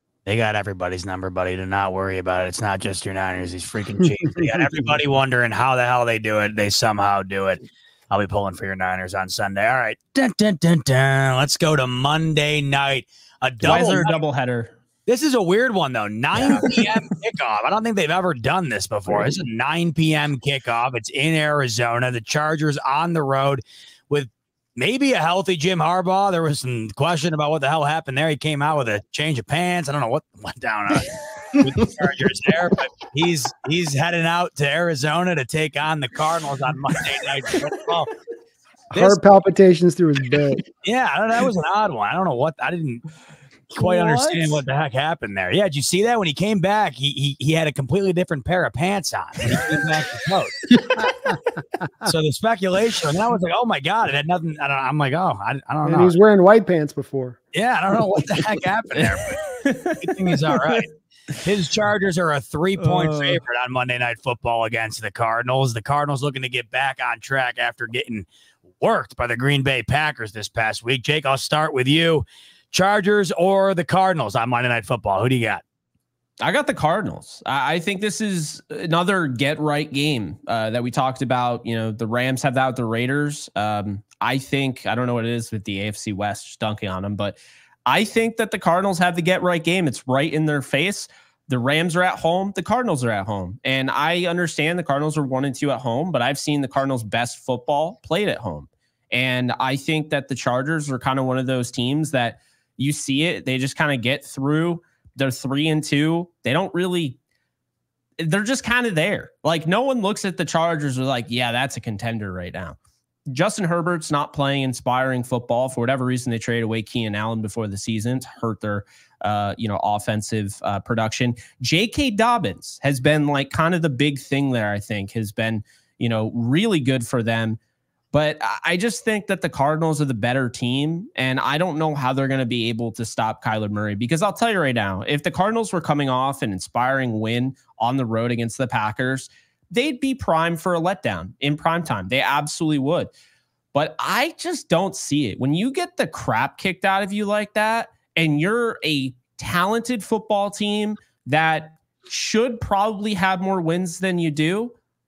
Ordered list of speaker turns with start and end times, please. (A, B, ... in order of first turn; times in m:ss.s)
0:00.2-0:14.2 A
0:13.6-0:14.7 B
0:15.1-0:38.1 A
0:16.4-0:16.8 B
0:38.9-0:40.6 C
0:40.8-0:43.0 A
0:43.7-0:50.6 A
0:50.9-0:51.4 C
0:52.0-0:56.1 A
0:55.8-0:57.4 C
0:57.5-1:08.3 A
0:59.6-1:00.8 B
1:03.0-1:03.4 B
1:08.8-1:15.6 A
1:16.4-1:47.2 B
1:48.2-1:52.8 B
1:53.3-2:07.6 B
2:08.1-2:23.1 B
2:23.7-2:34.7 B